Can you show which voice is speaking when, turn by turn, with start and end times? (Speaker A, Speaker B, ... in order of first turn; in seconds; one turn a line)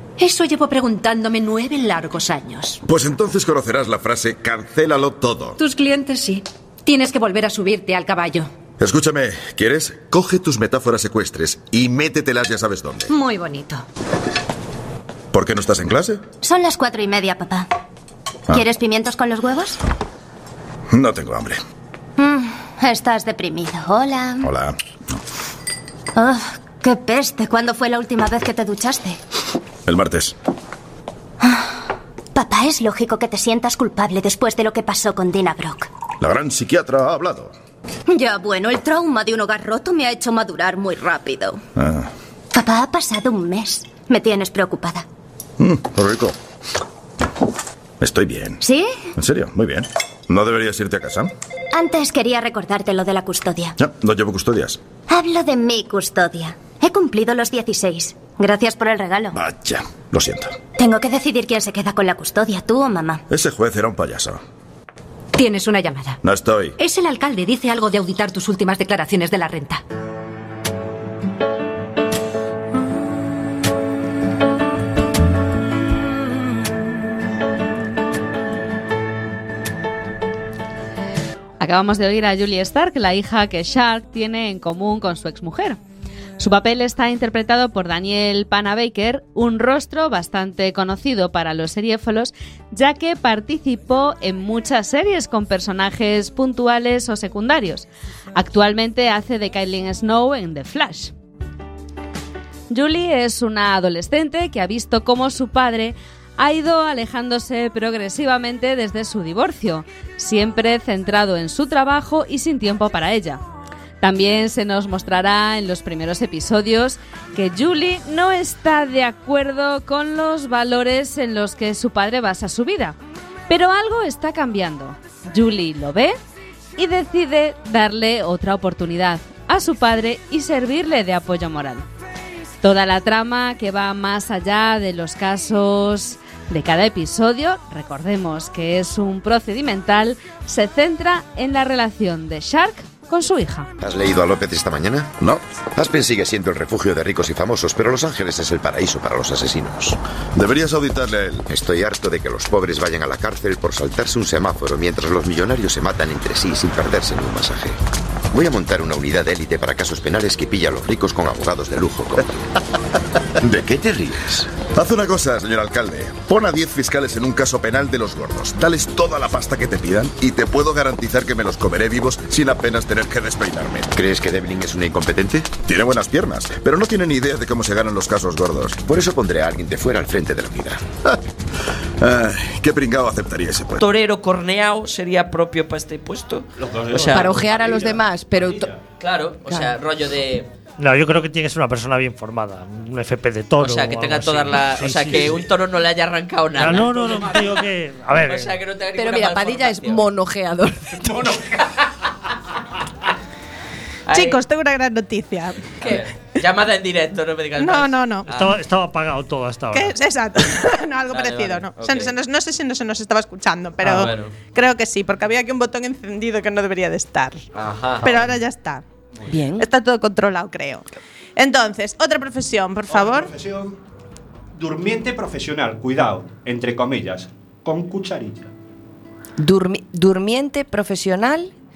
Speaker A: 0.2-2.8
Speaker B: 2.8-5.6
Speaker A: 5.6-8.5
Speaker B: 8.8-13.1
Speaker A: 13.1-13.8
Speaker B: 15.3-16.2
Speaker C: 16.4-17.7
Speaker C: 18.5-19.8
Speaker B: 20.9-21.6
Speaker C: 22.2-24.5
Speaker B: 24.4-25.2
Speaker C: 26.1-29.2
Speaker B: 29.9-30.4
Speaker C: 31.4-35.9
Speaker B: 36.2-37.5
Speaker C: 38.1-41.6
Speaker B: 41.8-42.1
Speaker C: 42.5-45.0
Speaker B: 45.6-46.4
Speaker B: 48.0-48.6
Speaker C: 48.6-49.1
Speaker B: 49.2-51.3
Speaker C: 51.7-53.8
Speaker B: 53.8-54.8
Speaker C: 55.1-59.4
Speaker B: 59.3-60.5
Speaker C: 60.8-63.2
Speaker B: 63.3-64.4
Speaker A: 65.4-66.2
Speaker B: 66.2-66.8
Speaker A: 66.8-69.8
Speaker D: 81.6-85.8
Speaker D: 86.4-101.1
Speaker D: 102.7-113.4
Speaker D: 114.0-123.0
Speaker D: 123.5-126.2
Speaker D: 126.8-131.8
Speaker D: 132.6-143.7
Speaker E: 143.8-145.1
Speaker E: 145.8-150.0
Speaker B: 150.4-151.5
Speaker E: 151.5-157.8
Speaker E: 158.3-162.3
Speaker E: 163.4-164.5
Speaker B: 164.6-173.9
Speaker E: 173.9-175.6
Speaker B: 175.6-178.9
Speaker E: 178.8-180.8
Speaker B: 182.0-183.8
Speaker F: 183.8-187.4
Speaker G: 186.6-188.8
Speaker H: 187.0-188.7
Speaker F: 189.0-190.5
Speaker H: 189.5-189.7
Speaker I: 190.8-195.5
Speaker F: 193.6-197.6
Speaker I: 196.6-198.5
Speaker G: 197.0-197.6
Speaker F: 198.2-200.0
Speaker H: 199.0-201.4
Speaker F: 201.1-201.9
Speaker F: 204.1-204.4
Speaker J: 204.1-206.0
Speaker F: 205.8-208.6
Speaker J: 207.6-208.3
Speaker I: 208.3-210.0
Speaker J: 209.7-217.4
Speaker F: 211.1-212.1
Speaker F: 213.8-214.3
Speaker F: 217.5-218.2
Speaker J: 218.0-218.8
Speaker I: 218.1-218.3
Speaker H: 219.3-219.7
Speaker J: 219.6-220.9
Speaker J: 221.4-223.3
Speaker G: 222.9-223.8
Speaker G: 224.5-228.5
Speaker H: 229.4-231.5